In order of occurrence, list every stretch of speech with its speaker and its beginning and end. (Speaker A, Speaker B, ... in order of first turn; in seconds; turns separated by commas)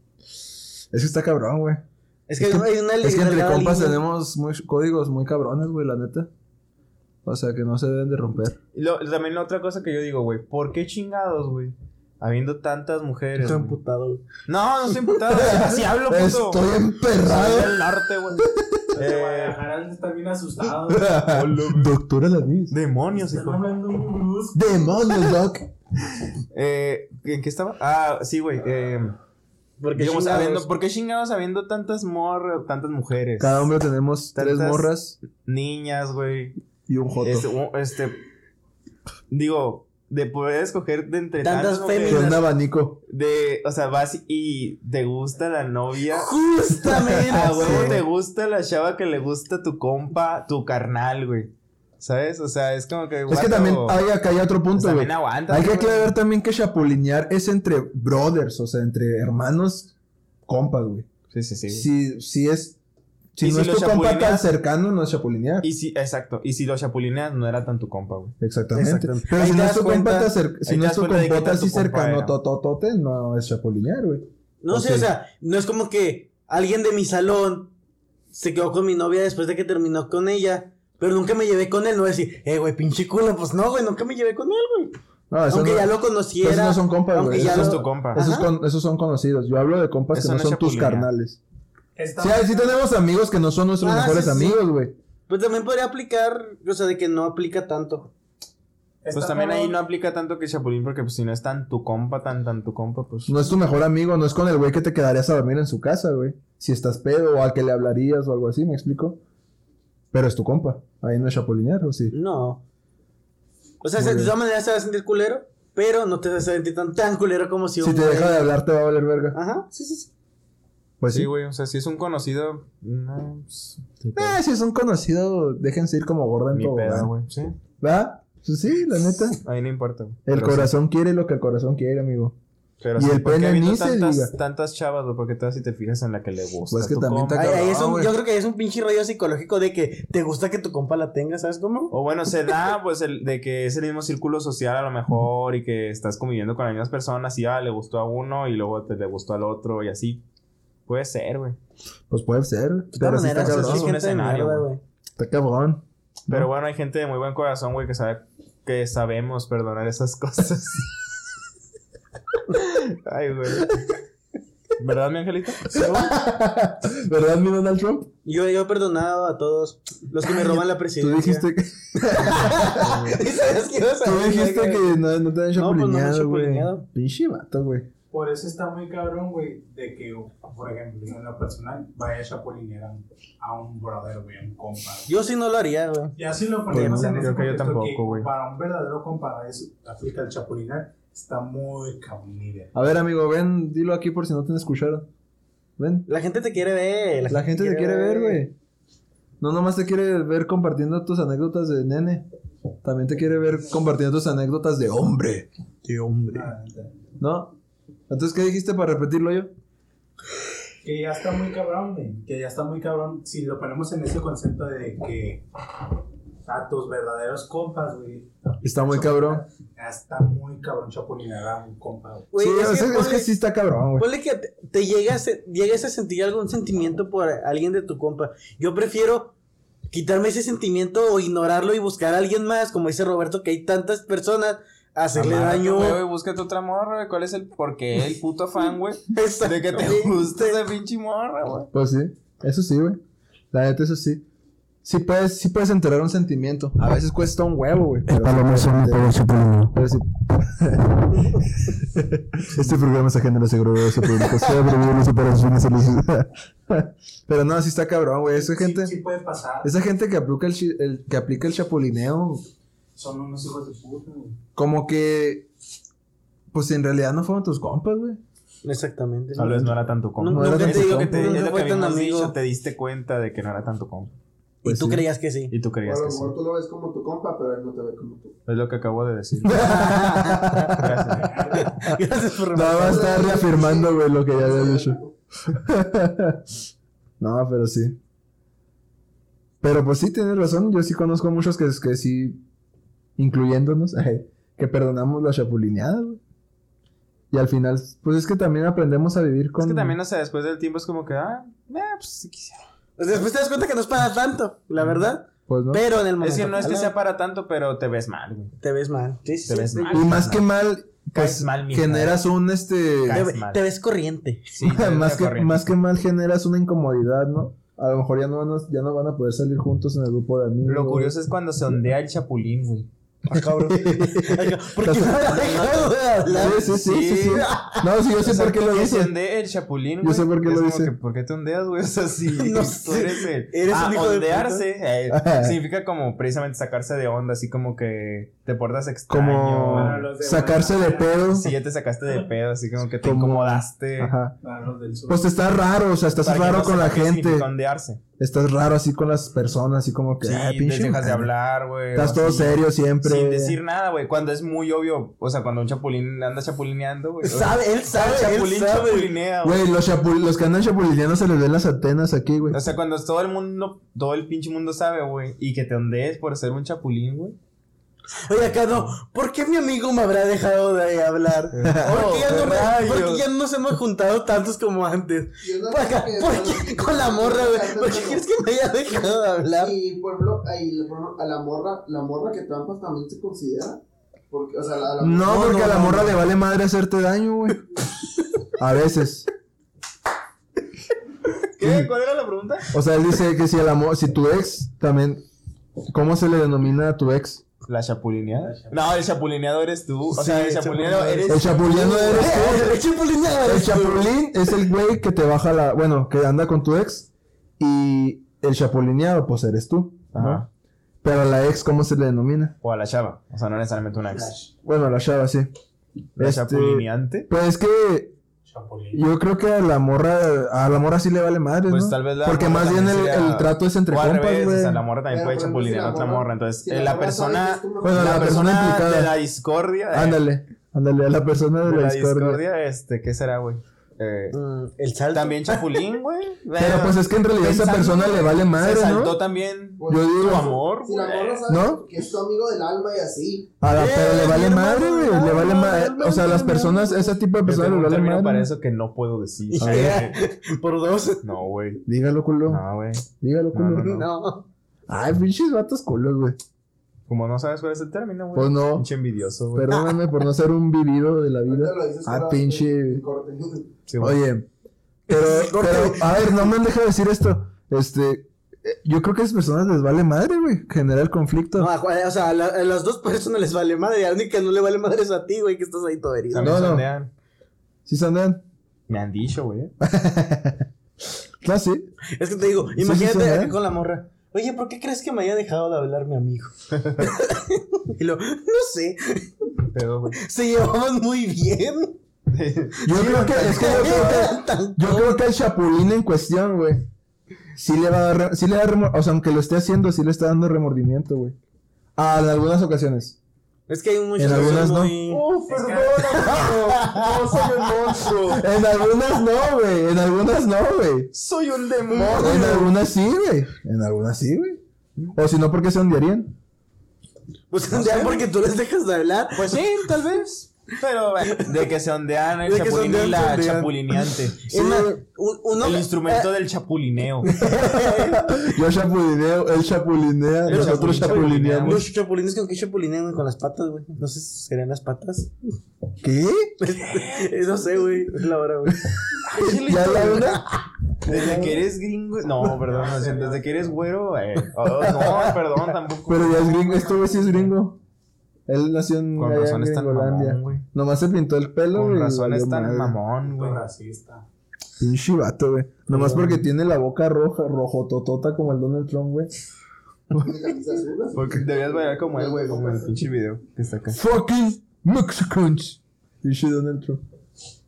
Speaker A: 0.9-1.8, Speaker B: 2.3-4.0, Speaker A: 2.4-6.3, Speaker A: 7.2-8.6, Speaker C: 8.7-13.8, Speaker B: 13.4-14.2, Speaker C: 14.4-18.4, Speaker A: 15.3-17.8, Speaker A: 18.4-18.8, Speaker D: 18.9-21.1, Speaker C: 19.0-19.6, Speaker A: 20.9-22.7, Speaker C: 21.2-21.9, Speaker C: 22.7-23.6, Speaker D: 23.1-24.6, Speaker A: 24.5-25.7, Speaker C: 26.5-29.1, Speaker B: 29.8-30.7, Speaker C: 29.9-33.7, Speaker A: 33.4-35.1, Speaker C: 34.3-36.5, Speaker A: 36.9-37.5, Speaker C: 37.2-38.2, Speaker C: 39.3-42.4, Speaker B: 41.4-42.4, Speaker A: 42.1-43.0, Speaker C: 43.1-46.3, Speaker B: 46.1-48.0, Speaker A: 46.8-48.0, Speaker C: 47.2-54.0, Speaker A: 53.3-59.9, Speaker C: 54.7-56.1, Speaker A: 60.5-61.1, Speaker C: 61.3-61.9, Speaker A: 61.7-62.8, Speaker A: 63.3-65.7, Speaker C: 63.4-64.5, Speaker C: 65.6-68.3, Speaker A: 68.4-75.1, Speaker B: 68.7-70.3, Speaker C: 70.7-72.3, Speaker B: 74.6-77.7, Speaker B: 78.3-84.9, Speaker A: 85.3-91.4, Speaker B: 85.5-88.5, Speaker C: 87.3-88.2, Speaker C: 90.1-91.1, Speaker D: 92.0-92.8, Speaker A: 92.2-94.9, Speaker B: 93.8-94.6, Speaker B: 95.3-98.1, Speaker D: 99.0-99.8, Speaker C: 99.1-103.3, Speaker A: 103.3-109.2, Speaker A: 110.1-112.2, Speaker B: 112.1-112.6, Speaker B: 113.8-118.5, Speaker A: 114.0-114.3, Speaker A: 117.8-119.4, Speaker B: 119.3-120.1, Speaker A: 121.0-121.3, Speaker C: 121.1-124.4, Speaker A: 124.2-127.1, Speaker C: 126.5-127.5, Speaker A: 127.8-129.4, Speaker C: 129.4-130.7, Speaker A: 130.2-132.3, Speaker C: 132.8-137.6, Speaker A: 132.9-134.3, Speaker A: 136.7-138.1, Speaker B: 137.3-141.9, Speaker C: 141.9-150.2, Speaker C: 150.9-151.6, Speaker A: 152.1-153.9, Speaker B: 152.9-154.8, Speaker C: 153.4-154.7, Speaker A: 155.2-156.5, Speaker C: 156.3-160.9, Speaker C: 162.5-163.8, Speaker C: 164.8-165.8, Speaker B: 165.7-166.1, Speaker A: 165.7-168.1, Speaker B: 168.2-171.5, Speaker A: 170.3-173.2, Speaker B: 172.1-176.8, Speaker C: 172.8-173.2, Speaker A: 174.0-177.9, Speaker D: 178.1-185.1, Speaker B: 185.1-186.2, Speaker D: 186.2-192.7, Speaker B: 186.7-187.3, Speaker A: 186.7-187.2, Speaker C: 187.1-188.3, Speaker A: 192.7-195.1, Speaker A: 195.8-196.1, Speaker B: 196.1-198.4, Speaker A: 197.3-198.5, Speaker A: 199.4-202.2, Speaker A: 202.8-205.5, Speaker B: 205.8-206.5, Speaker D: 206.3-206.9, Speaker A: 207.2-207.6, Speaker A: 208.1-209.5, Speaker D: 210.8-215.4, Speaker D: 216.4-222.3, Speaker A: 218.6-219.4, Speaker B: 222.3-223.3, Speaker A: 222.4-224.1, Speaker B: 224.0-229.3, Speaker B: 229.9-236.0, Speaker C: 235.1-241.7, Speaker B: 239.1-240.6, Speaker A: 241.7-243.0, Speaker A: 243.5-244.2, Speaker A: 244.8-258.9, Speaker B: 254.0-254.7, Speaker D: 258.3-259.7, Speaker A: 259.6-262.4, Speaker D: 262.9-264.4, Speaker A: 264.6-265.5, Speaker A: 266.5-268.2, Speaker B: 268.6-272.3, Speaker C: 269.4-274.1, Speaker A: 270.3-271.4, Speaker B: 274.6-275.5, Speaker A: 274.6-275.1, Speaker C: 275.5-276.3, Speaker E: 275.8-278.3, Speaker C: 278.4-279.7, Speaker A: 279.4-280.9, Speaker B: 279.5-283.5, Speaker C: 280.7-281.4, Speaker D: 281.1-281.9, Speaker A: 282.5-286.4, Speaker E: 282.8-285.1, Speaker A: 287.2-288.0, Speaker A: 289.6-292.4, Speaker A: 293.2-296.2, Speaker A: 297.3-300.0, Speaker C: 299.6-302.6, Speaker B: 303.0-306.9, Speaker C: 304.8-305.1, Speaker A: 305.5-305.8, Speaker C: 306.2-308.5, Speaker B: 308.6-310.2, Speaker C: 309.5-310.5, Speaker A: 309.9-313.2, Speaker C: 311.1-312.2, Speaker C: 313.0-313.6, Speaker B: 313.1-314.5, Speaker C: 314.5-315.7, Speaker A: 314.6-321.1, Speaker C: 320.6-322.9, Speaker B: 323.2-327.9, Speaker A: 323.3-325.3, Speaker C: 325.2-327.5, Speaker A: 326.4-329.1, Speaker C: 328.2-340.1, Speaker A: 330.0-330.9, Speaker B: 332.3-334.7, Speaker A: 335.1-335.6, Speaker A: 339.1-341.5, Speaker D: 339.7-341.3, Speaker C: 341.3-344.1, Speaker A: 343.0-344.4, Speaker D: 344.4-345.3, Speaker A: 345.1-347.5, Speaker C: 346.2-348.0, Speaker A: 348.2-351.3, Speaker C: 350.2-359.6, Speaker A: 351.9-353.6, Speaker B: 357.2-359.1, Speaker A: 359.4-362.6, Speaker C: 362.5-367.4, Speaker B: 368.2-379.7, Speaker C: 371.5-373.2, Speaker A: 371.6-372.2, Speaker E: 375.4-378.3, Speaker E: 379.6-385.4, Speaker A: 385.0-387.6, Speaker B: 385.2-386.2, Speaker A: 388.6-389.3, Speaker C: 391.6-392.7, Speaker A: 391.6-391.9, Speaker A: 392.7-395.2, Speaker A: 395.9-397.4, Speaker C: 397.7-402.6, Speaker D: 398.4-398.7, Speaker B: 400.1-404.1, Speaker A: 401.3-402.8, Speaker A: 403.4-410.4, Speaker C: 410.1-410.4, Speaker A: 411.0-412.5, Speaker C: 412.6-414.3, Speaker D: 414.1-414.5, Speaker A: 414.6-415.5, Speaker C: 416.2-417.3, Speaker A: 416.2-418.1, Speaker D: 418.5-419.0, Speaker A: 418.9-424.8, Speaker C: 421.7-430.2, Speaker E: 425.1-428.5, Speaker A: 427.8-429.1, Speaker A: 429.9-432.4, Speaker C: 431.6-434.4, Speaker B: 434.3-435.9, Speaker C: 435.1-441.4, Speaker A: 436.6-439.2, Speaker E: 439.8-443.5, Speaker A: 439.9-440.5, Speaker A: 441.5-441.8, Speaker A: 443.6-448.5, Speaker B: 443.7-447.2, Speaker C: 447.4-450.2, Speaker B: 449.5-451.2, Speaker A: 449.6-450.0, Speaker C: 451.2-451.8, Speaker A: 451.8-452.6, Speaker C: 452.5-454.1, Speaker A: 453.2-454.0, Speaker B: 453.8-454.4, Speaker A: 454.9-456.4, Speaker C: 457.1-459.7, Speaker A: 458.3-458.9, Speaker A: 459.5-463.0, Speaker B: 459.7-460.2, Speaker E: 461.5-463.7, Speaker C: 463.9-464.2, Speaker A: 464.0-464.5, Speaker A: 465.1-471.7, Speaker B: 465.1-466.3, Speaker B: 471.6-476.6, Speaker C: 476.3-477.1, Speaker A: 476.4-476.9, Speaker A: 477.9-478.4, Speaker C: 478.9-479.7, Speaker A: 479.8-480.6, Speaker A: 481.4-481.9, Speaker B: 482.1-489.5, Speaker A: 482.8-483.5, Speaker C: 486.7-487.1, Speaker C: 489.7-490.2, Speaker B: 490.1-492.0, Speaker C: 492.3-494.2, Speaker A: 492.8-496.9, Speaker B: 492.9-495.2, Speaker A: 497.6-501.4, Speaker A: 501.9-503.2, Speaker B: 503.7-505.2, Speaker A: 504.2-511.1, Speaker C: 504.3-508.4, Speaker D: 505.5-505.9, Speaker B: 506.0-507.3, Speaker C: 511.1-512.6, Speaker B: 511.9-512.7, Speaker A: 512.1-514.6, Speaker A: 515.1-516.4, Speaker B: 517.5-520.2, Speaker C: 517.7-518.2, Speaker C: 519.3-524.5, Speaker B: 521.2-521.7, Speaker B: 522.4-526.3, Speaker A: 524.5-525.0, Speaker C: 525.6-527.3, Speaker B: 527.2-528.5, Speaker A: 527.7-531.8, Speaker C: 530.5-531.8, Speaker B: 530.5-535.3, Speaker A: 536.0-536.5, Speaker B: 536.6-541.5, Speaker C: 536.9-537.3, Speaker C: 539.3-540.4, Speaker A: 539.4-540.4, Speaker A: 541.0-541.5, Speaker C: 541.0-547.5, Speaker D: 542.5-543.8, Speaker B: 544.6-545.7, Speaker A: 546.1-547.8, Speaker A: 548.5-553.0, Speaker C: 549.1-550.6, Speaker C: 551.7-553.6, Speaker D: 553.2-554.2, Speaker A: 554.8-559.3, Speaker C: 555.9-556.5, Speaker E: 560.1-563.0, Speaker C: 561.1-564.0, Speaker A: 563.9-567.0